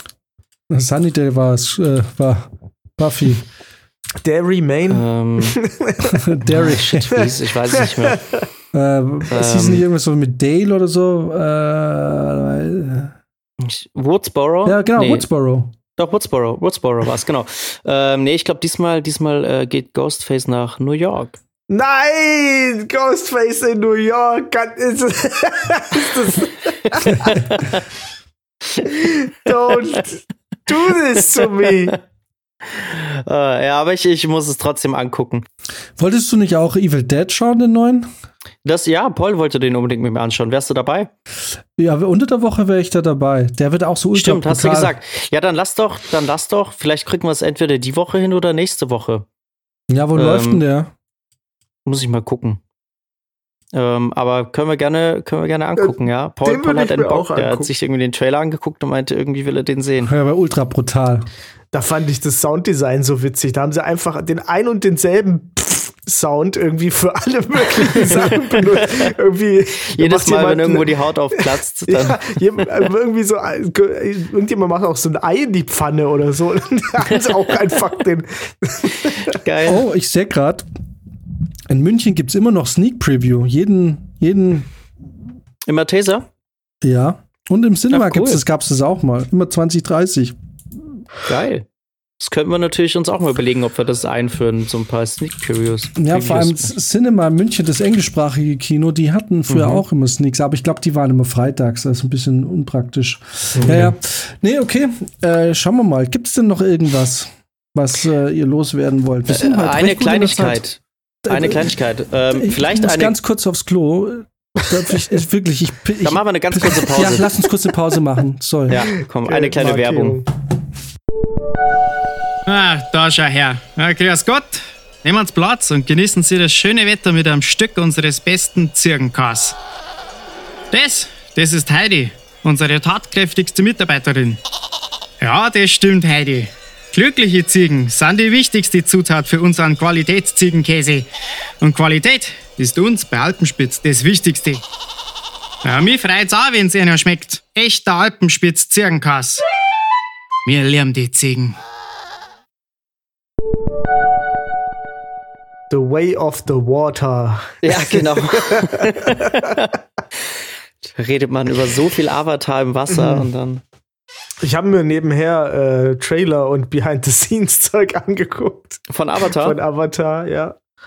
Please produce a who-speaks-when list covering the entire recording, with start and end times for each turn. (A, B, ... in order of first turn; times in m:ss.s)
0:00.7-0:03.4 A
0:04.2-0:06.2 B
0:04.9-0:05.6 C
0:06.1-0:07.1 A
0:06.5-0:08.2 C
0:07.1-0:08.4 B
0:08.7-0:13.1 A
0:09.3-0:09.8 C
0:13.6-0:15.3 C
0:14.7-0:15.7 A
0:16.0-0:21.4 C
0:21.7-0:27.5 B
0:26.9-0:27.8 C
0:28.8-0:32.0 B
0:31.7-0:32.0 C
0:32.7-0:35.4 C
0:36.0-0:38.1 A
0:38.6-0:41.1 C
0:41.8-0:44.9 A
0:44.1-0:49.3 C
0:49.9-0:50.9 A
0:50.2-0:50.6 C
0:51.9-0:52.6 C
0:53.7-1:00.1 C
0:55.8-0:57.7 B
1:00.0-1:01.3 A
1:01.7-1:19.4 B
1:08.1-1:09.1 C
1:09.9-1:12.3 C
1:19.2-1:19.8 C
1:19.7-1:20.7 A
1:21.7-1:24.7 A
1:25.7-1:26.3 C
1:26.8-1:30.4 A
1:27.9-1:28.4 C
1:31.3-1:31.7 C
1:32.2-1:36.7 C
1:36.0-1:50.6 A
1:39.5-1:39.8 C
1:43.6-1:43.9 B
1:43.6-1:43.9 C
1:49.3-1:53.1 C
1:51.2-1:51.7 A
1:52.4-1:58.9 A
1:56.0-1:57.5 C
1:58.7-2:00.2 C
1:59.2-2:00.3 B
2:02.5-2:09.6 D
2:10.7-2:14.4 D
2:15.2-2:21.1 D
2:21.6-2:24.6 D
2:25.6-2:29.4 D
2:30.5-2:31.6 D
2:35.7-2:39.5 B
2:37.6-2:39.7 C
2:41.0-2:43.6 C
2:42.9-2:43.3 B
2:44.4-2:50.6 B
2:48.9-2:49.6 C